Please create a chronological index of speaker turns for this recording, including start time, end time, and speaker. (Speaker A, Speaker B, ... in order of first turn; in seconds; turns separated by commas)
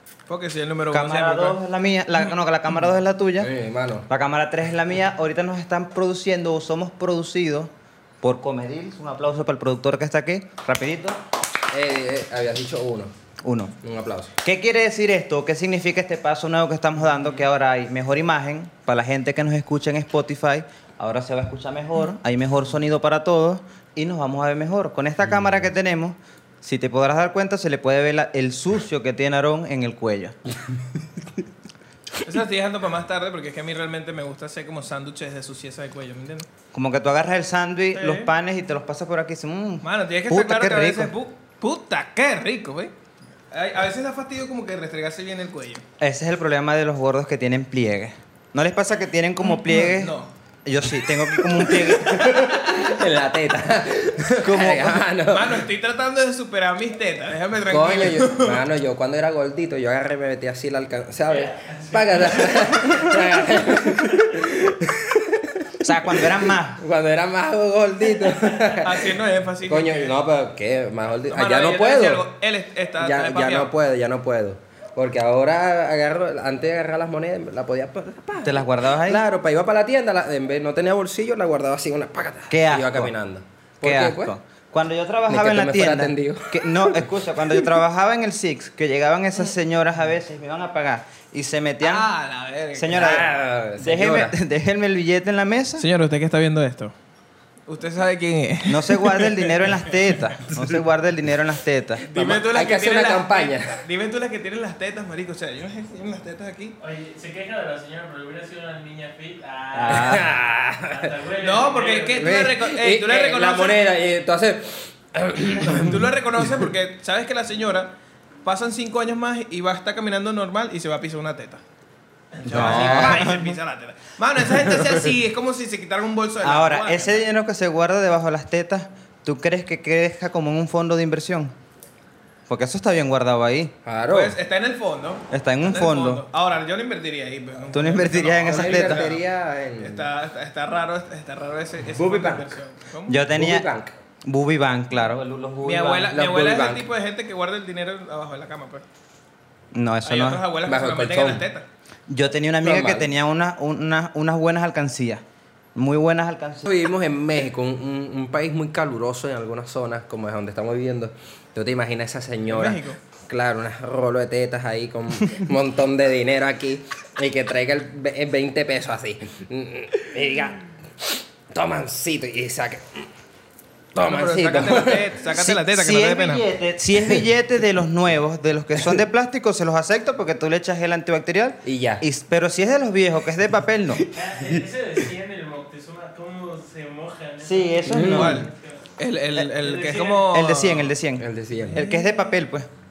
Speaker A: 0.3-1.6, Speaker B: 0.9-3.5, Speaker C: 3.4-4.1, Speaker B: 4.1-7.7, Speaker B: 8.2-11.2, Speaker C: 11.7-13.1, Speaker B: 13.4-13.7, Speaker C: 13.8-14.3, Speaker B: 14.4-30.3, Speaker A: 32.2-36.5, Speaker B: 36.7-41.1, Speaker A: 37.9-38.3, Speaker A: 39.8-42.9, Speaker A: 43.5-45.8, Speaker B: 46.0-50.1, Speaker A: 49.4-50.3, Speaker B: 50.6-52.5, Speaker C: 51.6-55.6, Speaker A: 52.2-52.8, Speaker B: 54.4-55.0, Speaker A: 55.2-58.6, Speaker C: 57.6-72.2, Speaker D: 61.3-64.4, Speaker B: 65.8-66.8, Speaker D: 68.2-68.7, Speaker A: 68.8-70.1, Speaker A: 71.3-73.7, Speaker C: 73.0-84.3, Speaker B: 78.4-79.2, Speaker B: 82.5-83.1, Speaker B: 83.8-92.1, Speaker C: 85.3-87.7, Speaker A: 91.8-93.1, Speaker B: 92.7-95.8, Speaker C: 92.9-94.3, Speaker A: 95.8-96.9, Speaker A: 97.7-100.2, Speaker B: 98.7-102.0, Speaker A: 102.1-106.8, Speaker C: 102.1-103.8, Speaker D: 106.8-110.3, Speaker B: 109.7-110.3, Speaker C: 109.9-111.1, Speaker D: 110.9-112.5, Speaker A: 111.4-113.8, Speaker C: 112.1-116.7, Speaker A: 115.7-121.6, Speaker A: 122.4-127.2, Speaker C: 122.5-123.2, Speaker B: 122.5-123.5, Speaker C: 124.5-125.1, Speaker B: 126.4-131.5, Speaker B: 132.5-133.7, Speaker C: 133.8-134.4, Speaker A: 134.1-139.2, Speaker B: 135.3-136.2, Speaker B: 137.7-139.1, Speaker C: 138.4-140.1, Speaker A: 139.8-143.2, Speaker C: 141.9-142.6, Speaker B: 143.1-143.7, Speaker C: 143.3-143.9, Speaker B: 144.2-146.1, Speaker A: 145.6-148.8, Speaker C: 146.0-146.9, Speaker B: 149.7-150.4, Speaker A: 150.0-151.7, Speaker C: 150.6-151.4, Speaker B: 152.1-155.2, Speaker C: 152.6-153.1, Speaker B: 155.7-156.7, Speaker C: 156.6-173.1, Speaker A: 162.4-163.0, Speaker C: 173.9-175.2, Speaker A: 174.0-176.4, Speaker B: 175.3-184.0, Speaker C: 177.0-177.2, Speaker C: 181.6-182.0, Speaker D: 184.1-188.8, Speaker B: 187.4-188.5, Speaker C: 187.9-188.4, Speaker A: 188.0-190.9, Speaker D: 189.5-190.3, Speaker B: 190.3-192.7, Speaker C: 191.2-191.8, Speaker A: 191.7-192.0